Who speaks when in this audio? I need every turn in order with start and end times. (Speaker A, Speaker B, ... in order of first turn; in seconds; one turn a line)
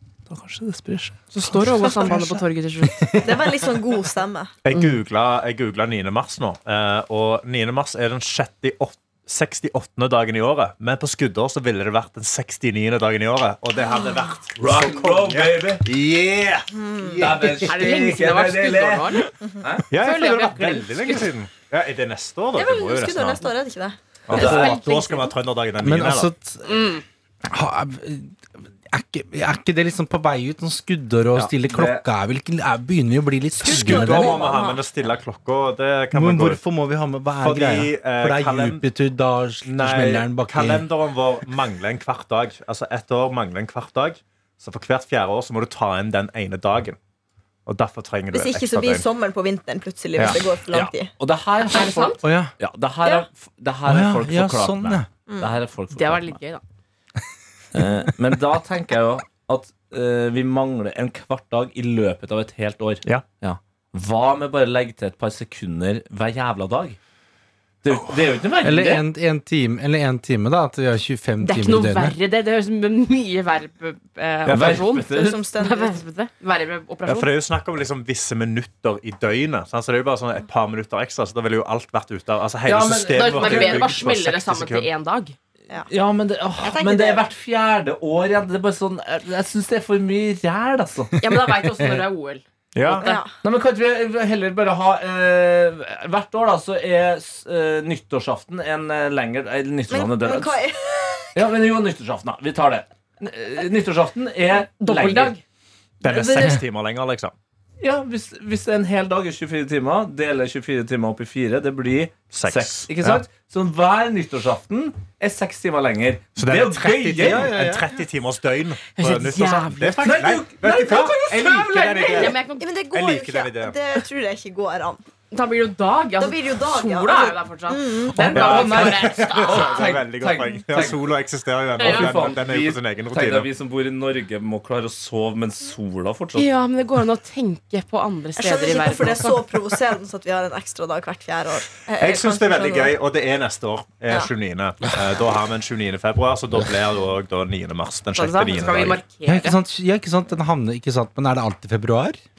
Speaker A: 0.3-1.2
Speaker B: 1.3-3.0
Speaker C: 2.0-3.5
Speaker D: 3.2-4.5
Speaker E: 4.6-17.5
Speaker B: 4.7-5.0
Speaker D: 13.8-14.2
Speaker A: 14.6-15.8
Speaker D: 16.7-17.3
Speaker A: 17.2-19.9
Speaker B: 17.6-19.3
Speaker E: 19.9-23.5
Speaker B: 19.9-21.3
Speaker D: 22.6-24.0
Speaker E: 24.3-26.3
Speaker B: 24.3-25.3
Speaker A: 24.3-24.7
Speaker C: 25.8-26.9
Speaker B: 26.6-27.0
Speaker C: 27.4-34.4
Speaker A: 31.3-32.0
Speaker D: 33.6-34.8
Speaker E: 33.6-36.6
Speaker C: 36.1-40.9
Speaker E: 37.4-38.8
Speaker E: 39.6-47.0
Speaker E: 47.6-49.0
Speaker D: 48.3-51.1
Speaker A: 50.2-56.4
Speaker B: 51.7-52.2
Speaker C: 52.2-52.5
Speaker C: 53.9-55.1
Speaker B: 55.9-56.6
Speaker A: 57.7-67.0
Speaker A: 67.8-69.0
Speaker C: 68.6-72.2
Speaker B: 71.4-77.3
Speaker E: 74.5-74.8
Speaker A: 74.5-75.4
Speaker D: 75.0-76.0
Speaker E: 77.0-84.9
Speaker A: 82.7-83.8
Speaker B: 82.9-85.3
Speaker A: 85.9-91.1
Speaker D: 86.6-87.2
Speaker B: 91.2-93.2
Speaker C: 91.3-92.0
Speaker E: 92.7-93.1
Speaker D: 92.8-93.3
Speaker A: 93.4-100.5
Speaker D: 99.9-101.5
Speaker A: 101.3-105.3
Speaker B: 104.8-105.4
Speaker E: 106.0-107.3
Speaker A: 106.1-106.6
Speaker A: 107.8-117.5
Speaker E: 112.3-113.2
Speaker E: 116.4-123.8
Speaker C: 117.2-117.8
Speaker B: 119.0-122.7
Speaker A: 120.0-121.1
Speaker D: 121.5-125.0
Speaker B: 125.3-129.9
Speaker D: 126.2-128.2
Speaker A: 128.2-131.1
Speaker E: 128.3-133.5
Speaker A: 131.8-136.5
Speaker B: 131.8-132.1
Speaker B: 136.3-139.4
Speaker D: 138.4-142.9
Speaker E: 142.0-149.0
Speaker B: 148.1-149.6
Speaker C: 149.2-152.2